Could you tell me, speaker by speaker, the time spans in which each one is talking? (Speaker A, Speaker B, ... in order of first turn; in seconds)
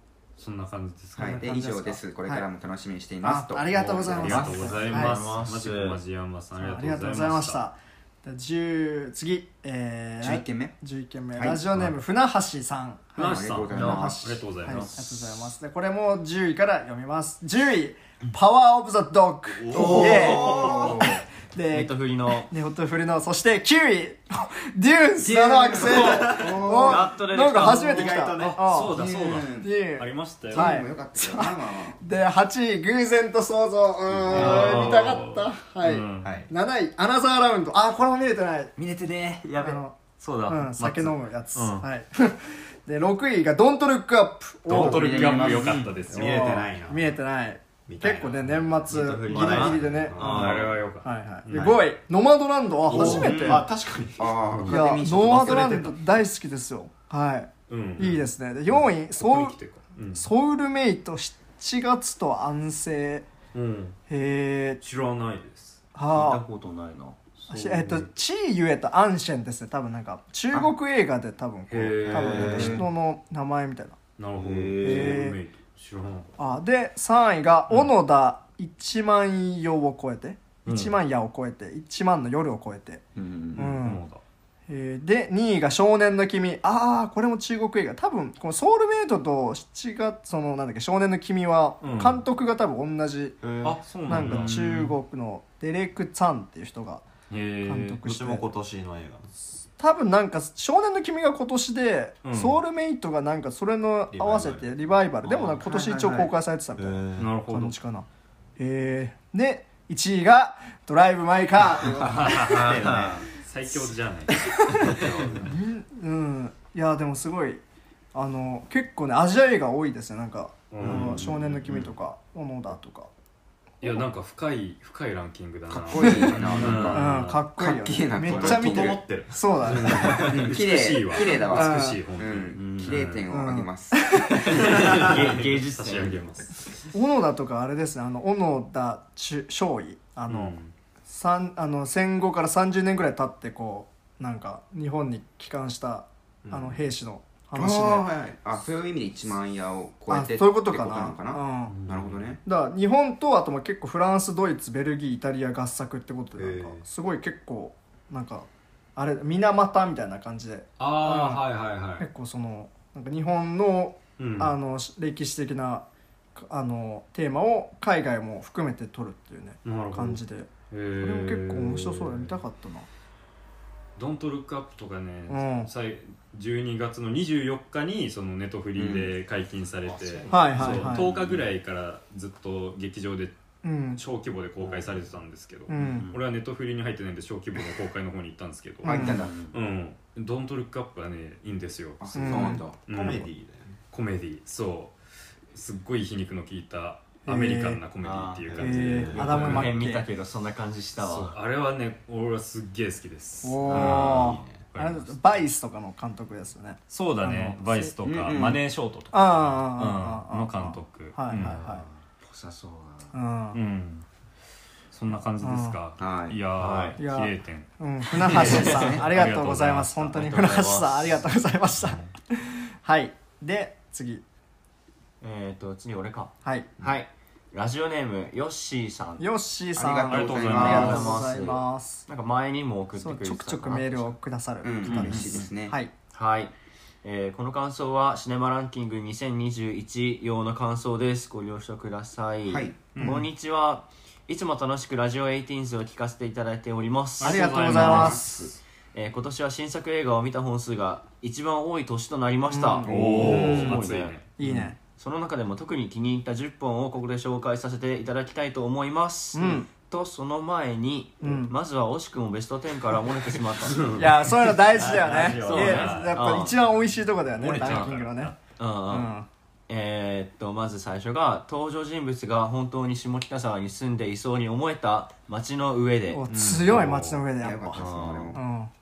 Speaker A: 0.4-1.5, 3.7-7.6, 13.2-15.3, 28.4-30.8, 34.3-36.3, 40.2-41.9, 44.7-46.5, 50.1-51.8, 52.9-53.6, 57.7-60.3, 63.5-64.0, 64.8-65.8, 67.4-68.1, 71.7-72.9, 74.2-76.4, 80.7-81.0, 83.8-84.2, 91.8-92.2, 93.6-95.0, 97.3-98.0, 102.2-102.6, 107.2-107.8, 112.0-115.6, 120.7-121.6, 123.8-127.4, 129.7-133.2, 134.6-136.8, 140.3-140.7, 151.7-152.3, 160.8-162.1, 164.2-164.5, 169.6-172.4, 173.9-183.4, 183.9-193.3, 193.9-194.9, 195.5-199.8, 201.0-205.4, 206.9-211.6, 213.5-214.1, 214.9-220.1, 221.8-222.1, 230.1-231.2, 234.9-235.4, 242.9-243.2, 247.2-248.5, 252.9-254.3, 263.7-266.2, 267.4-268.4, 276.3-277.3
Speaker B: 1.2-4.8, 10.2-10.8, 11.3-11.6, 13.2-14.2, 19.7-21.2, 25.8-27.1, 28.9-29.7, 30.5-32.0, 38.8-39.4, 44.7-45.9, 54.2-56.0, 83.1-83.8, 125.7-129.0, 130.3-134.2, 147.6-152.4, 178.8-179.1, 188.8-189.4, 192.0-192.8, 208.0-208.6, 216.0-216.4, 229.8-231.3, 234.6-235.8, 242.4-243.0, 252.8-253.6, 277.4-278.4
Speaker C: 1.2-2.5, 3.2-5.2, 6.6-38.8, 39.6-40.0, 40.5-50.2, 51.0-53.7, 54.7-59.5, 60.1-63.3, 64.1-64.8, 66.0-66.4, 67.5-74.0, 74.8-75.4, 76.4-83.0, 83.5-84.0, 84.7-93.4, 94.0-97.0, 97.6-98.5, 99.8-108.1, 108.6-112.5, 114.4-117.6, 118.1-123.1, 126.0-126.4, 126.9-130.3, 131.4-132.0, 133.3-135.1, 136.9-148.1, 150.1-151.8, 152.4-161.4, 162.0-172.9, 175.3-175.7, 180.3-181.1, 183.6-184.0, 185.7-186.1, 188.8-189.2, 192.1-192.6, 197.3-197.8, 198.6-200.1, 203.4-207.9, 209.1-211.9, 213.1-213.6, 215.4-215.8, 217.0-224.2, 226.4-226.7, 229.2-232.1, 233.0-235.9, 243.0-243.3, 247.2-248.4, 252.5-253.8, 254.4-254.8, 259.3-259.7, 261.2-261.6, 263.9-268.4, 268.9-269.3, 276.1-278.7
Speaker D: 4.3-6.0, 13.7-14.1, 20.0-20.4, 21.7-22.5, 25.4-28.3, 34.4-35.0, 38.9-39.8, 48.9-50.7, 66.1-67.2, 72.2-72.8, 74.4-75.2, 105.4-106.3, 112.4-113.3, 132.6-133.0, 134.4-136.2, 180.6-181.1, 185.8-186.2, 189.1-189.6, 198.0-201.4, 203.8-204.2, 211.3-213.2, 216.6-217.0, 218.3-219.0, 220.1-221.2, 225.2-229.3, 230.5-234.2, 234.9-235.4, 236.1-266.6, 267.5-268.0, 268.6-269.2, 269.7-276.6, 277.7-278.4
Speaker E: 19.6-20.8, 25.9-26.8, 27.5-28.6, 34.3-35.0, 36.2-36.5, 46.0-47.2, 47.9-50.8, 52.9-54.6, 72.1-72.9, 74.5-74.8, 93.4-94.6, 98.0-99.3, 104.1-104.8, 106.8-107.4, 112.2-113.3, 128.3-130.4, 146.4-146.8, 156.3-156.8, 179.9-181.2, 192.9-193.8, 198.8-199.6, 203.7-204.5